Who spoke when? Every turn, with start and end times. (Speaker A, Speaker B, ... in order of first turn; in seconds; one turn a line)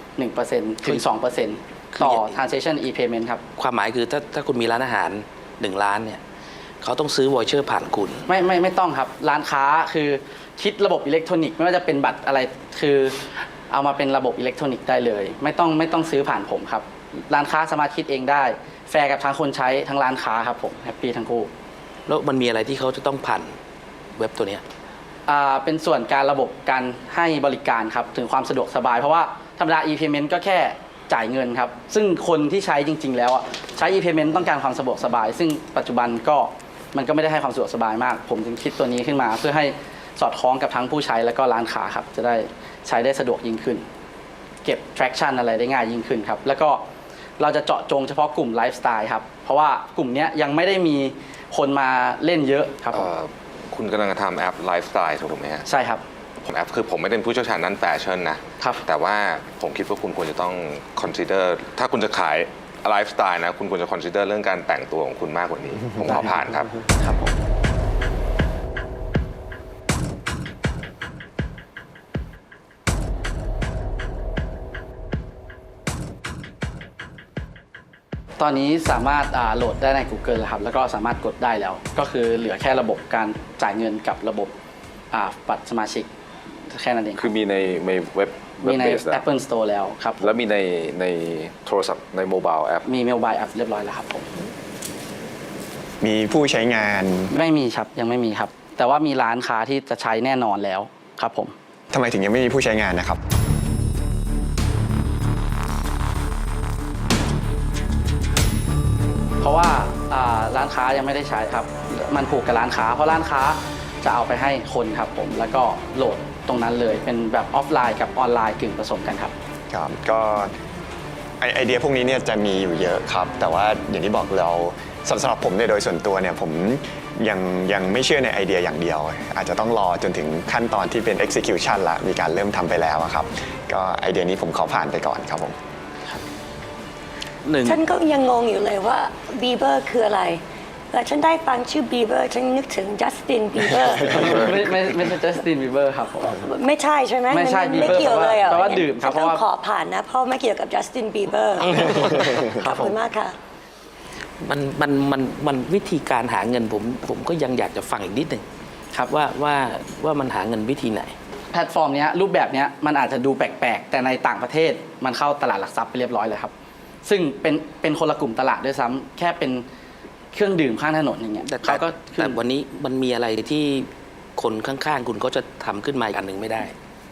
Speaker A: 0.2-3.4
Speaker B: 1.9-2.4
Speaker B: 3.6-6.2
Speaker B: 6.8-8.3
Speaker A: 8.3-21.5
Speaker B: 22.1-23.6
Speaker B: 24.2-24.6
Speaker A: 25.3-43.9
Speaker A: 44.6-46.8
Speaker A: 47.4-53.1
Speaker C: 52.9-55.6
Speaker A: 55.7-56.0
Speaker C: 56.5-66.7
Speaker A: 66.1-67.3
Speaker A: 78.4-84.5
Speaker A: 85.1-86.1
Speaker A: 86.7-87.3
Speaker D: 87.2-89.2
Speaker A: 88.6-90.4
Speaker D: 90.2-92.9
Speaker A: 92.9-94.3
Speaker E: 96.0-97.3
Speaker A: 97.3-101.5
Speaker E: 101.9-103.2
Speaker A: 109.4-119.3
Speaker E: 119.7-120.5
Speaker E: 121.4-135.6
Speaker B: 137.4-137.8
Speaker F: 137.6-140.4
Speaker F: 140.9-144.4
Speaker A: 144.1-146.4
Speaker F: 146.4-153.4
Speaker A: 147.3-149.4
Speaker B: 151.6-152.3
Speaker A: 152.6-153.0
Speaker B: 154.4-158.4
Speaker B: 159.0-161.1
Speaker A: 161.5-166.5
Speaker A: 167.1-169.7
Speaker A: 170.3-172.4
Speaker B: 171.5-176.7